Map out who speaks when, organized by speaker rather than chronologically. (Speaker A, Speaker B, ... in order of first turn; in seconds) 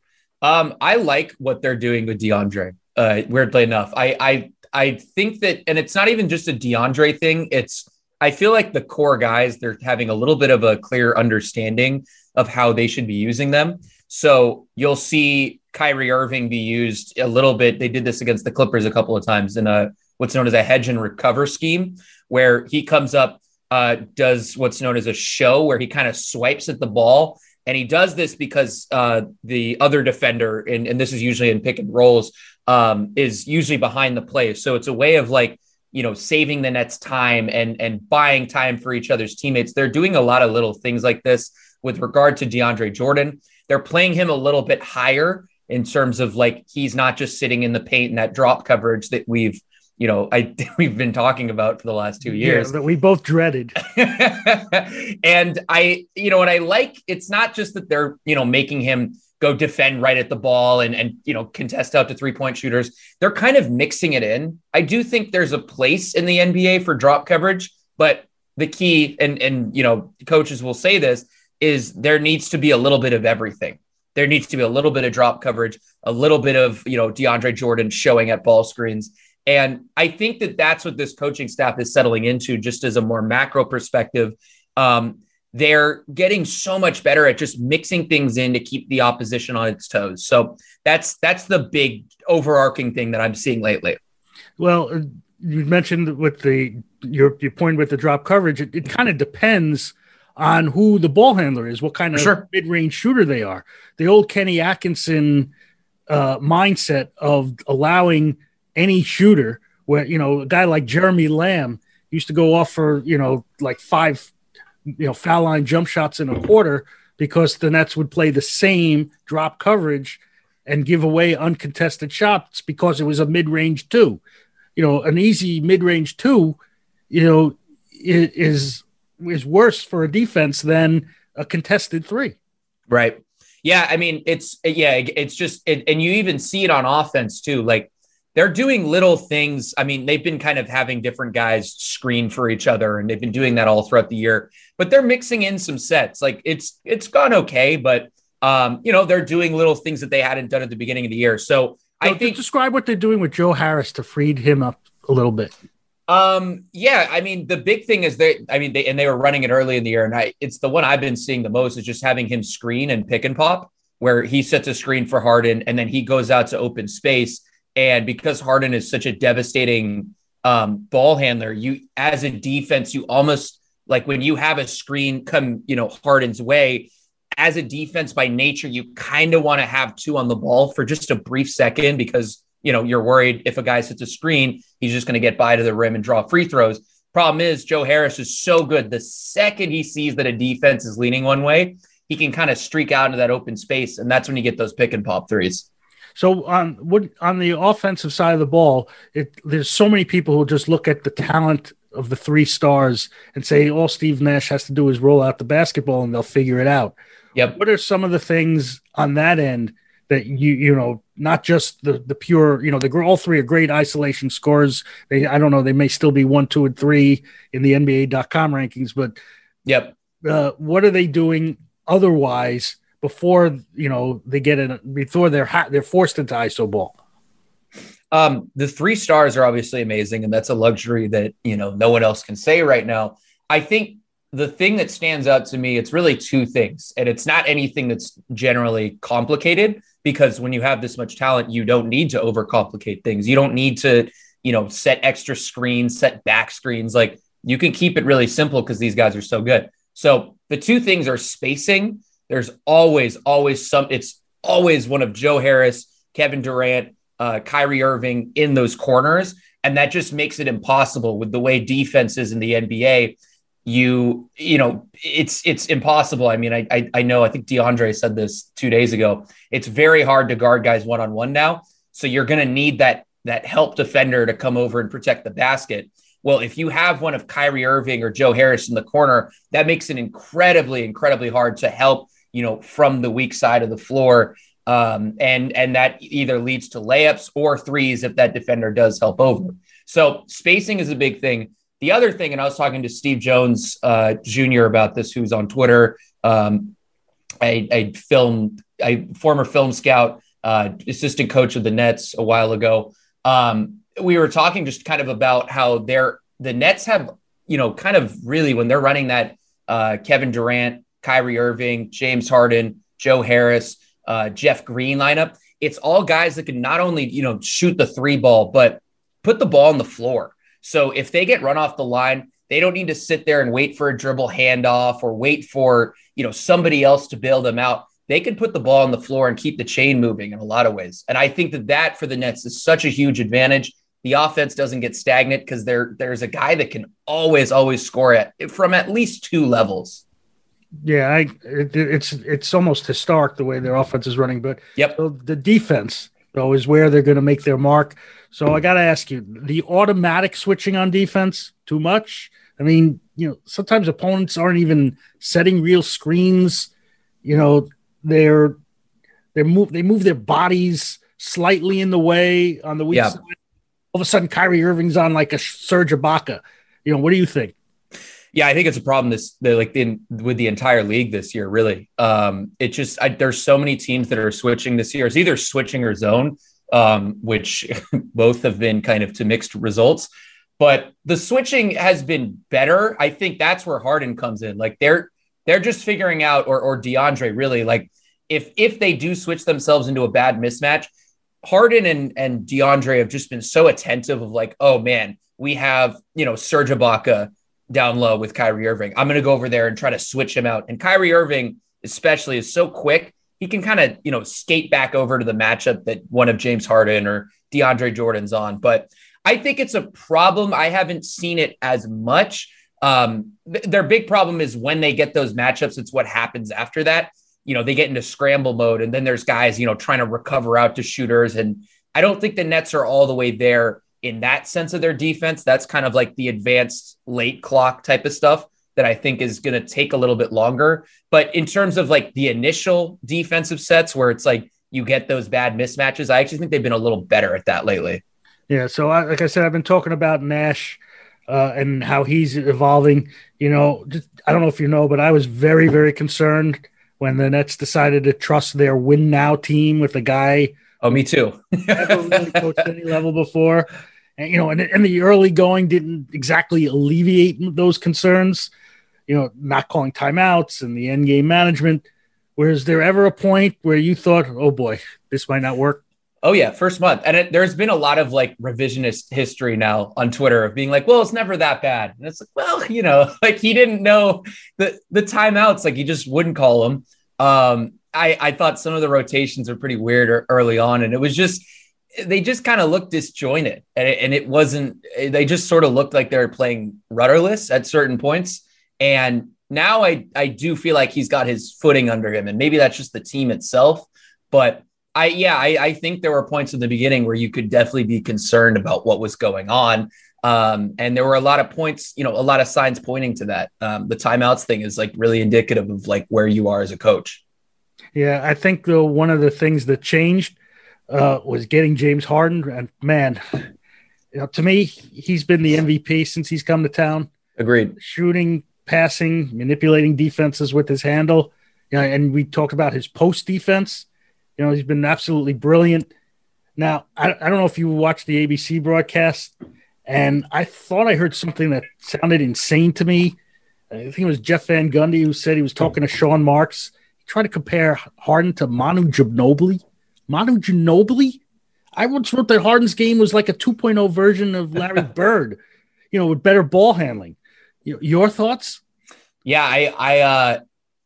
Speaker A: 0.4-52.7, 53.8-94.0, 102.1-102.4, 132.9-152.4, 156.1-195.7, 219.7-219.9, 228.1-296.7, 297.4-340.0, 362.9-363.2, 368.3-390.9, 391.4-438.0, 450.8-452.4, 466.2-481.4, 482.0-507.2, 517.4-517.8, 549.2-550.4
Speaker B: 52.2-53.8, 94.6-105.5, 106.1-114.3, 115.0-124.2, 124.8-126.6, 127.1-132.3, 152.0-155.5, 196.2-206.9, 207.6-219.2, 220.2-226.9, 340.8-356.7, 357.2-358.6, 359.3-363.2, 363.9-367.5, 438.5-450.5, 451.7-458.5, 459.1-461.8, 462.4-465.8, 507.9-510.3, 510.9-513.2, 514.1-517.1, 517.8-523.9, 524.4-525.9, 526.6-529.3, 529.9-533.1, 533.7-541.2, 541.8-545.4, 545.9-548.6